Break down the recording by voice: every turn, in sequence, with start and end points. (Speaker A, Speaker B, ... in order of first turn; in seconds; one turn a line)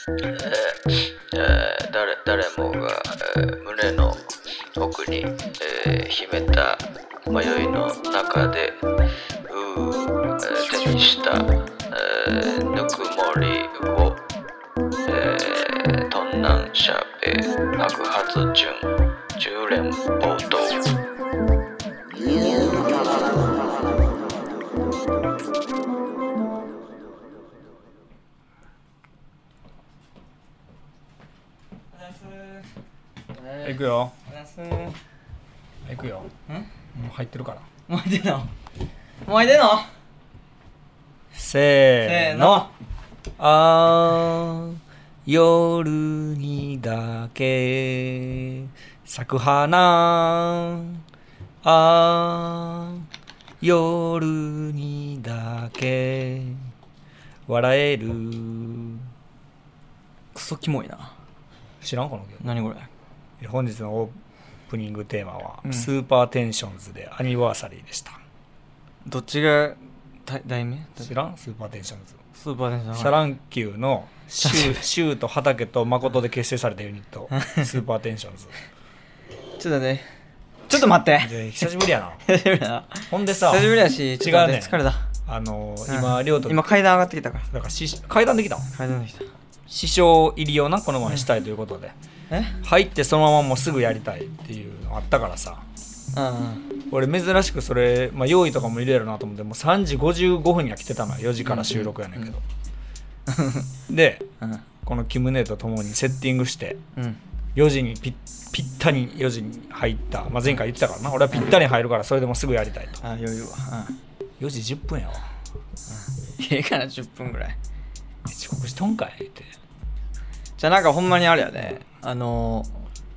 Speaker A: 0.2-4.2
Speaker A: 4.8-8.8
Speaker A: 9.5-14.2
Speaker A: 15.1-20.9
Speaker B: 31.9-32.7
Speaker B: 33.4-34.9
Speaker C: 33.6-34.1
Speaker C: 35.9-36.3
Speaker C: 36.9-37.6
Speaker B: 37.9-38.5
Speaker B: 39.2-39.9
Speaker C: 41.3-42.7
Speaker B: 42.0-42.7
Speaker C: 43.4-51.0
Speaker C: 51.6-53.0
Speaker C: 53.6-56.6
Speaker C: 57.5-59.1
Speaker B: 60.3-61.1
Speaker C: 61.8-62.5
Speaker B: 62.4-62.9
Speaker C: 63.4-64.1
Speaker C: 64.7-68.2
Speaker B: 65.6-65.9
Speaker B: 69.0-71.1
Speaker C: 71.0-72.1
Speaker B: 72.4-73.2
Speaker C: 72.9-78.5
Speaker B: 74.4-74.7
Speaker B: 77.3-77.7
Speaker B: 79.6-80.0
Speaker B: 80.7-81.6
Speaker C: 81.2-82.2
Speaker B: 82.2-85.1
Speaker C: 83.1-86.6
Speaker B: 85.9-87.5
Speaker C: 87.5-88.7
Speaker B: 88.7-89.3
Speaker C: 89.7-91.9
Speaker B: 92.3-92.5
Speaker C: 92.6-95.6
Speaker B: 96.1-96.7
Speaker C: 96.9-102.4
Speaker B: 101.5-102.3
Speaker B: 103.3-103.7
Speaker C: 103.9-104.3
Speaker C: 104.8-106.8
Speaker C: 107.5-113.0
Speaker B: 113.0-113.9
Speaker C: 114.4-115.3
Speaker B: 115.9-117.6
Speaker C: 118.2-119.5
Speaker B: 120.6-122.7